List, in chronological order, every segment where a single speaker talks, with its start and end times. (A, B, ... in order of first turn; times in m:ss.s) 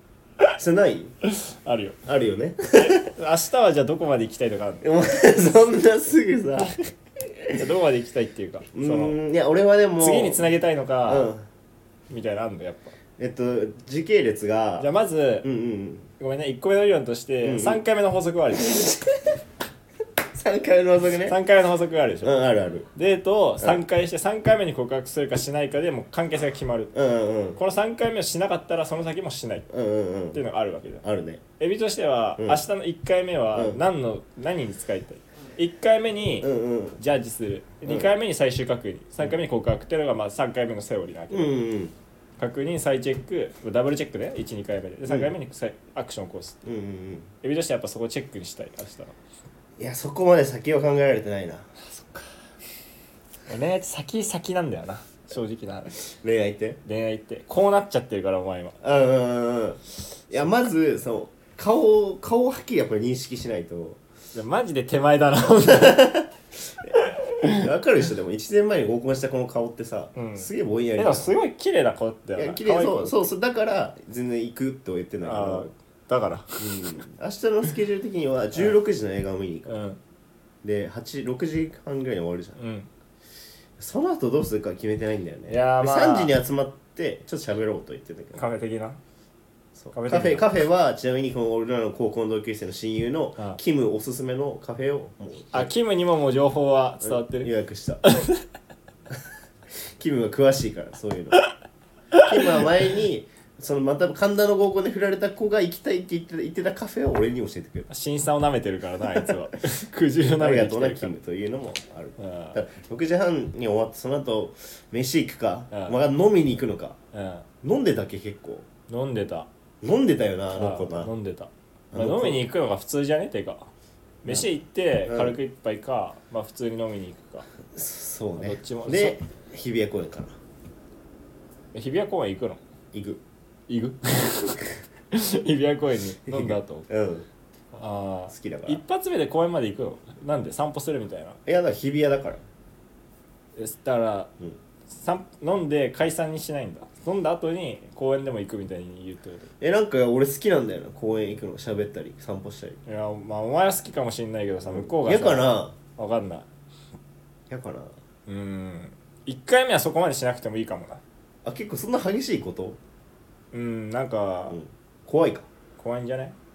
0:00.5-0:01.1 A
0:01.2-0:02.0 B
0:02.0-0:03.1 A
0:02.9-0:04.8 B
0:04.8-0:06.8 A
0:07.6-0:09.2 B
0:08.7-0:10.5 A
0:10.0-0:11.3 B
0:11.0-0:11.4 A
0:12.1-0:12.9 B
0:13.2-0:14.9 A
0:14.8-0:15.5 B
0:15.4-0:16.1 A
0:16.2-0:18.9 B
0:17.4-0:17.8 A
0:18.7-0:19.1 A
0:20.3-0:21.4 A
0:21.3-0:22.3 B
0:22.2-0:22.9 A
0:23.0-0:26.9 B
0:26.9-0:27.6 A
0:27.6-0:29.7 B
0:29.7-0:30.4 A
0:30.3-0:31.0 B
0:31.0-0:31.4 A
0:31.6-0:41.5 B
0:32.4-0:32.6 A
0:33.5-0:33.8 A
0:36.4-0:37.0 A
0:41.3-0:41.9 A
0:42.4-0:46.6 B
0:46.6-0:47.3 A
0:47.4-0:49.1 B
0:49.8-0:51.7 A
0:51.8-0:52.5 B
0:53.5-0:55.9 B
0:56.0-0:56.8 A
0:56.8-0:58.8 B
0:58.8-1:04.0 A
1:04.3-1:06.1 B
1:05.9-1:06.2 A
1:06.8-1:11.3 A
1:07.0-1:07.6 B
1:10.2-1:13.2 B
1:12.4-1:15.7 A
1:15.2-1:16.9 B
1:16.6-1:19.7 A
1:19.7-1:20.0 B
1:20.6-1:22.6 A
1:22.6-1:22.9 B
1:23.8-1:28.4 A
1:25.5-1:26.4 B
1:28.4-1:29.0 B
1:29.8-1:35.7 A
1:29.9-1:30.4 B
1:35.5-1:37.5 B
1:37.0-1:38.1 A
1:38.0-1:38.4 B
1:40.0-1:41.4 A
1:42.1-1:47.9 A
1:42.2-1:42.6 B
1:47.9-1:51.1 B
1:50.4-1:57.0 A
1:52.2-1:52.6 B
1:57.1-1:57.4 B
1:57.6-1:58.6 A
1:58.9-1:59.5 B
1:59.8-2:01.1 A
2:00.5-2:03.7 B
2:01.9-2:02.5 A
2:04.2-2:07.5 B
2:05.0-2:05.4 A
2:07.7-2:10.4 A
2:08.4-2:09.2 B
2:11.7-2:12.6 B
2:12.9-2:13.2 A
2:13.7-2:16.8 B
2:16.2-2:17.3 A
2:17.7-2:21.4 B
2:18.3-2:18.8 A
2:21.4-2:22.4 A
2:23.6-2:24.3 B
2:24.9-2:29.5 B
2:29.6-2:32.8 A
2:32.8-2:36.5 B
2:34.6-2:35.7 A
2:37.5-2:37.9 A
2:38.3-2:41.0 B
2:41.4-2:42.8 A
2:43.5-2:44.6 B
2:44.5-2:45.5 A
2:45.8-2:46.4 B